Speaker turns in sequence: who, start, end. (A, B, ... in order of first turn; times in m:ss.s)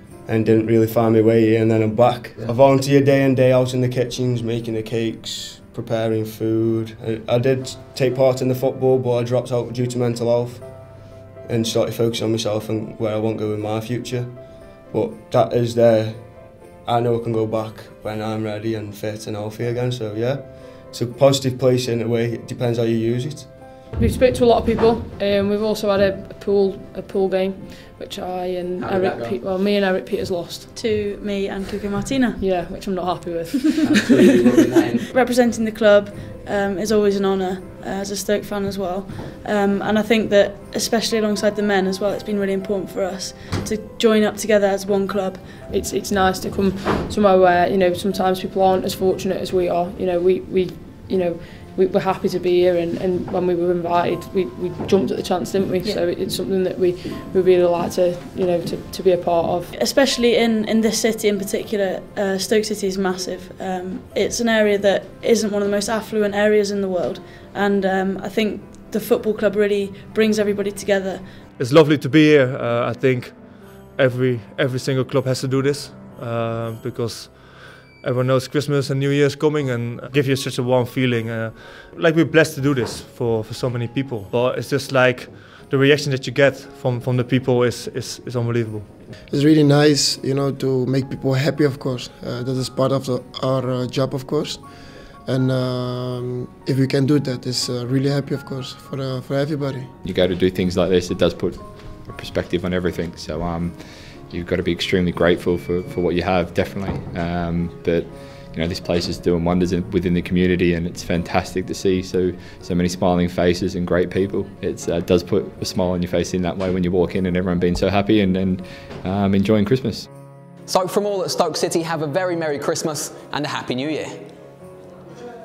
0:00.2-0:23.8 A
0:24.0-0:30.7 B
0:30.7-0:32.4 C
0:32.4-0:35.0 B
0:35.1-0:45.7 C
0:45.7-0:59.7 B
0:59.7-1:11.4 C
1:11.6-1:29.0 D
1:29.3-1:39.9 E
1:40.0-2:00.1 F
2:00.7-2:04.2 G